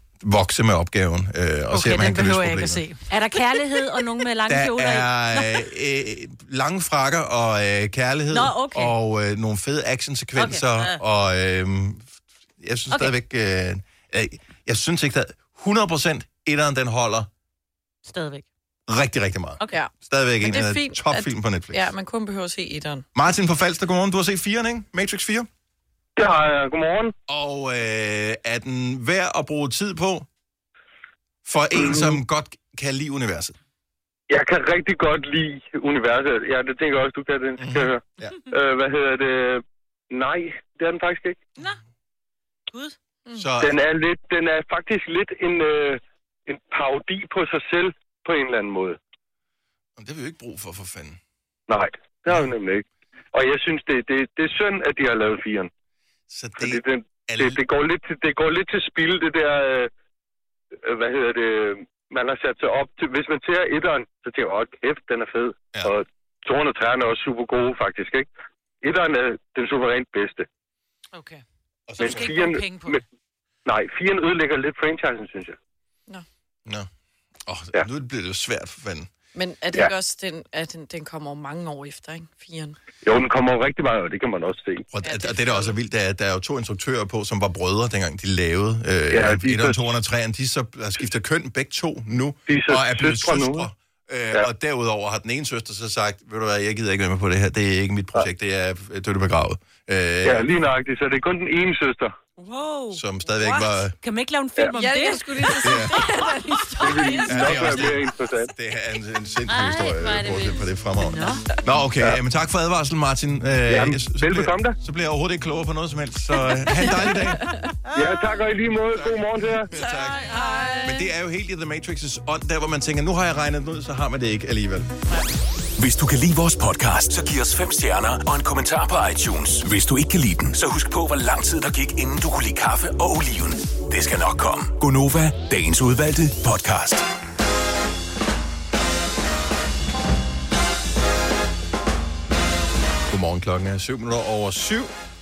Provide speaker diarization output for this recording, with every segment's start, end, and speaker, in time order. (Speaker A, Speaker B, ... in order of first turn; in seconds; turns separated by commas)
Speaker A: 0.2-2.8, Speaker B: 1.7-3.0, Speaker C: 3.1-5.7, Speaker A: 4.5-17.3, Speaker C: 8.3-8.9, Speaker C: 10.4-11.0, Speaker C: 12.9-13.2, Speaker C: 18.1-18.5, Speaker A: 18.9-21.9, Speaker D: 19.7-23.1, Speaker A: 23.1-25.5, Speaker E: 26.2-27.1, Speaker A: 27.3-30.3, Speaker A: 31.4-33.6, Speaker E: 34.3-41.5, Speaker A: 37.6-38.3, Speaker C: 42.7-43.0, Speaker A: 43.4-43.8, Speaker E: 43.6-49.0, Speaker A: 50.0-51.2, Speaker E: 51.7-55.7, Speaker A: 56.3-57.6, Speaker E: 56.6-59.9, Speaker E: 60.8-68.3, Speaker E: 68.8-70.5, Speaker B: 71.1-71.4, Speaker A: 71.9-72.3, Speaker B: 72.0-73.0, Speaker E: 72.0-73.0, Speaker E: 73.7-75.6, Speaker A: 77.5-79.1, Speaker D: 79.3-82.8, Speaker E: 83.0-84.9, Speaker A: 84.9-100.5, Speaker D: 85.0-85.8, Speaker E: 89.1-89.8, Speaker E: 92.5-93.7, Speaker E: 100.2-102.1, Speaker C: 102.4-107.8, Speaker A: 102.9-104.0, Speaker D: 104.7-107.4, Speaker A: 105.6-106.0, Speaker E: 106.8-108.5, Speaker A: 107.2-117.5, Speaker C: 109.5-111.5, Speaker E: 113.7-114.8, Speaker D: 117.0-117.5, Speaker E: 118.0-119.7, Speaker A: 118.9-120.3, Speaker B: 120.2-120.9, Speaker A: 120.8-124.9, Speaker F: 125.8-137.1, Speaker A: 143.1-144.9